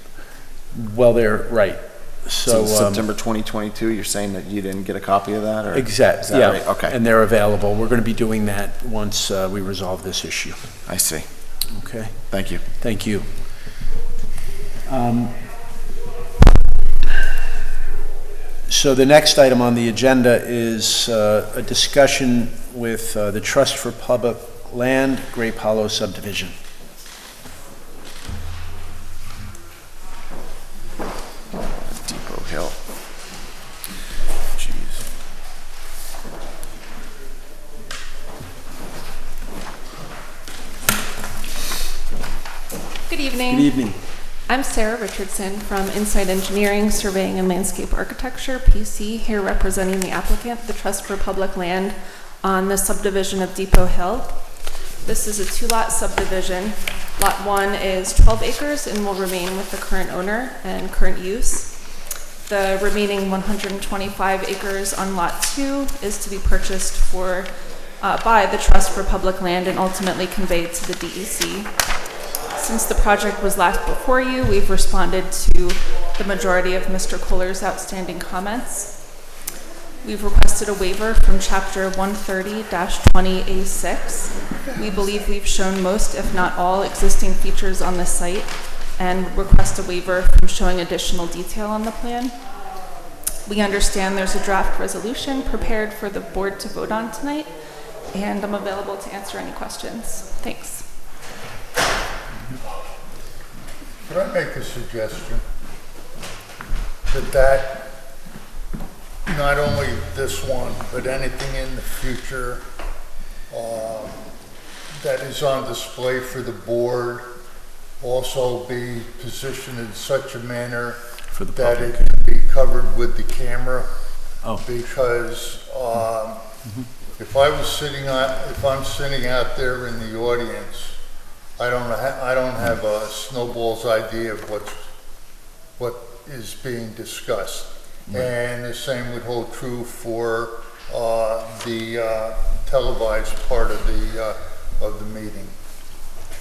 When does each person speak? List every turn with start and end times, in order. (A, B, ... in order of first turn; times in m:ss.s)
0:00.7-0:03.1 A
0:02.4-0:07.0 B
0:05.7-0:10.7 A
0:10.8-0:11.2 B
0:11.7-0:12.3 A
0:12.3-0:12.6 B
0:12.8-0:13.4 A
0:14.8-0:15.3 A
0:18.7-0:26.5 A
0:31.9-0:32.8 B
0:34.6-0:35.0 B
0:43.1-0:43.8 C
0:43.5-0:44.0 A
0:44.5-0:54.4 C
0:55.0-1:01.7 C
1:02.5-1:07.5 C
1:08.0-1:11.7 C
1:12.5-1:18.9 C
1:20.0-1:32.3 C
1:33.4-1:37.5 C
1:38.1-1:40.8 C
1:44.0-1:45.4 D
1:47.1-1:47.9 D
1:49.3-1:52.6 D
1:53.5-1:54.2 D
1:55.0-1:57.3 D
1:58.0-2:01.0 D
2:01.3-2:02.1 A
2:01.5-2:03.9 D
2:04.6-2:06.4 D
2:07.2-2:11.0 D
2:11.6-2:14.8 D
2:15.8-2:25.5 D